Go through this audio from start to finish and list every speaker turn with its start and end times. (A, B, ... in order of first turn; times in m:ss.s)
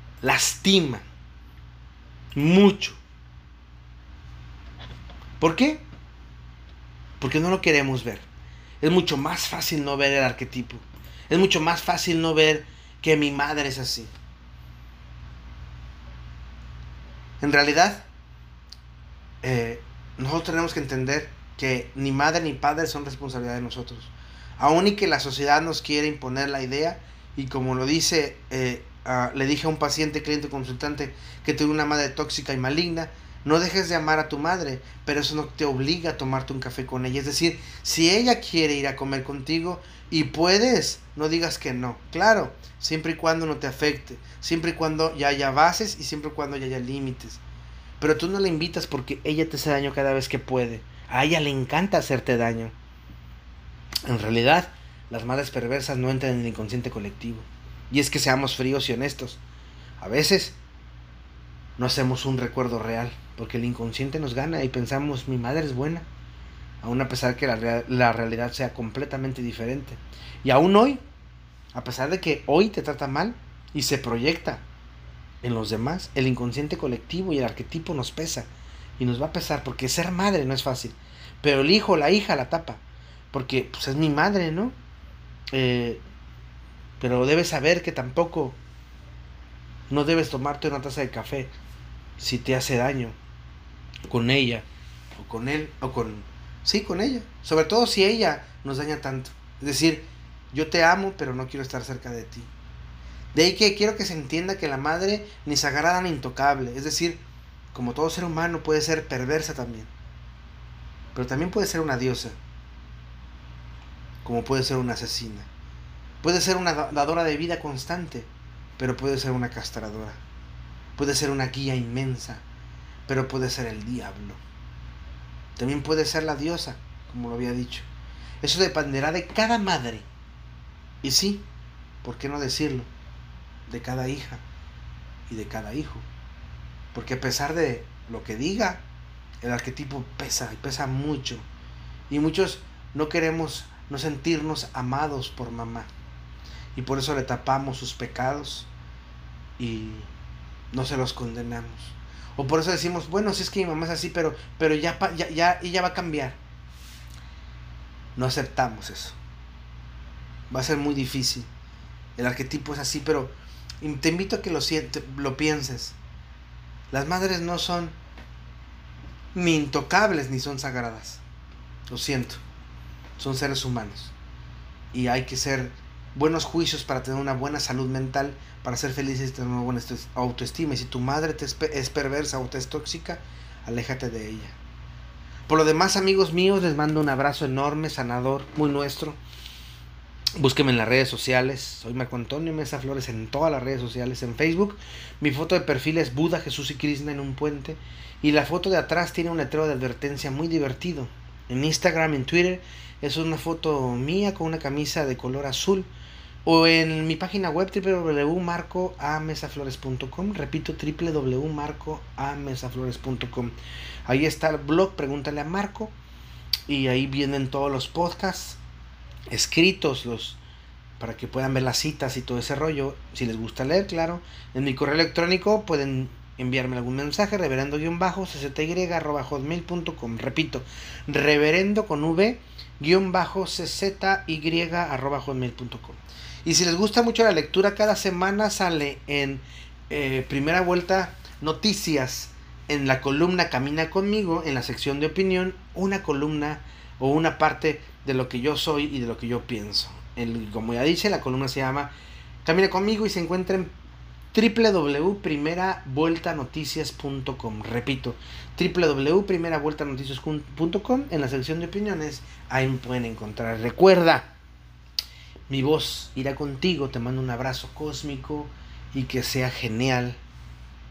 0:00.2-0:01.0 A
0:02.3-0:03.0 A
0:05.4-0:05.8 A
0:07.2-0:08.2 A
0:08.8-0:14.1 A
0:17.4-0:18.1 A
0:19.4-0:47.4 A
0:48.0-0:52.7 A
0:54.0-0:59.4 A
1:00.0-1:00.6 A
1:01.8-1:06.1 A
1:06.8-1:11.0 A
1:11.7-1:14.6 A
1:15.4-1:18.5 A
1:19.0-1:24.7 A
1:25.5-1:26.0 A
1:27.0-1:28.6 A
1:29.9-1:31.5 A
1:32.2-1:33.2 A
1:34.1-1:42.5 A
1:43.3-1:47.2 A
1:47.7-1:49.9 A
1:51.1-1:52.4 A
1:54.2-1:55.5 A
1:56.2-2:00.2 A
2:01.0-2:02.4 A
2:03.1-2:04.4 A
2:05.6-2:07.9 A
2:08.4-2:10.0 A
2:11.0-2:11.5 A
2:12.0-2:12.9 A
2:13.7-2:14.4 A
2:15.3-2:16.0 A
2:16.9-2:18.8 A
2:19.4-2:21.4 A
2:22.1-2:25.9 A
2:26.7-2:28.7 A
2:29.6-2:30.1 A
2:30.7-2:36.4 A
2:38.2-2:39.2 A
2:40.5-2:41.5 A
2:42.2-2:46.0 A
2:46.9-2:48.0 A
2:49.3-2:51.2 A
2:51.9-2:52.4 A
2:53.2-2:54.1 A
2:54.9-3:04.6 A
3:05.5-3:09.2 A
3:10.4-3:25.9 A
3:26.4-3:33.6 A
3:34.1-3:35.9 A
3:36.7-3:38.6 A
3:39.3-3:40.4 A
3:41.0-4:11.9 A
4:12.4-4:13.7 A
4:14.3-4:24.3 A
4:25.5-4:30.2 A